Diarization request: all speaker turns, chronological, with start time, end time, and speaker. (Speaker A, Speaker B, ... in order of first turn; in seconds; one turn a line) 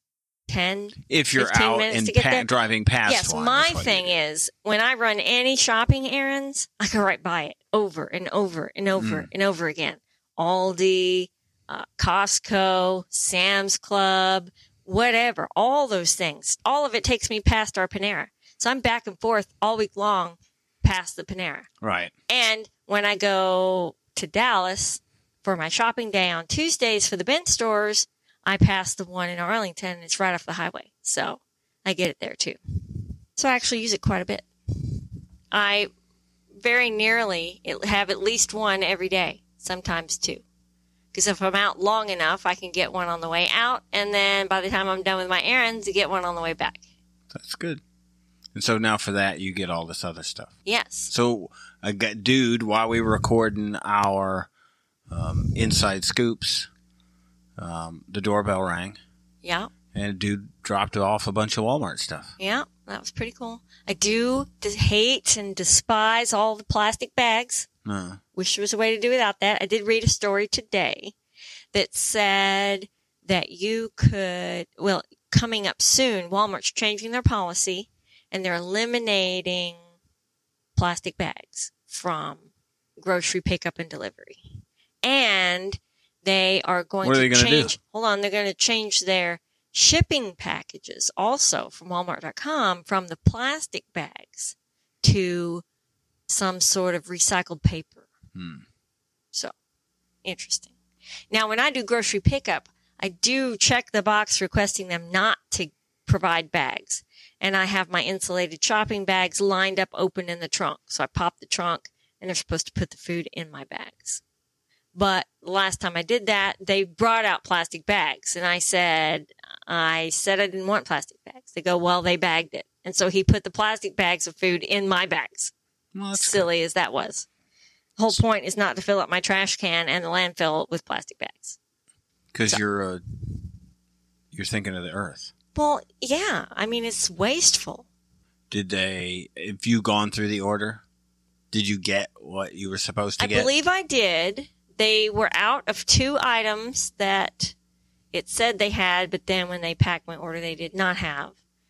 Speaker A: 0.5-2.5
Speaker B: 1.1-4.2
Speaker A: 3.0-21.7
Speaker B: 8.9-9.3
Speaker B: 21.8-22.1
Speaker A: 22.3-35.9
Speaker A: 36.6-40.4
Speaker A: 41.1-46.8
Speaker B: 47.3-47.8
Speaker B: 48.5-50.5
Speaker A: 50.6-51.1
Speaker B: 51.1-54.5
Speaker B: 55.1-56.7
Speaker B: 57.6-59.0
Speaker A: 59.4-59.7
Speaker B: 59.9-62.3
Speaker A: 62.4-67.7
Speaker B: 67.8-68.2
Speaker A: 68.3-71.1
Speaker A: 71.7-79.8
Speaker A: 80.8-82.4
Speaker A: 83.0-84.4
Speaker A: 85.0-95.6
Speaker B: 87.0-87.8
Speaker A: 96.3-98.1
Speaker B: 98.3-98.6
Speaker A: 100.2-100.7
Speaker A: 101.3-114.2
Speaker A: 115.0-125.5
Speaker B: 126.0-126.5
Speaker A: 126.2-127.3
Speaker A: 128.0-131.6
Speaker B: 132.3-133.0
Speaker B: 134.3-135.3
Speaker A: 135.6-137.9
Speaker B: 138.5-140.8
Speaker B: 141.5-143.5
Speaker A: 143.2-147.6
Speaker A: 148.1-151.3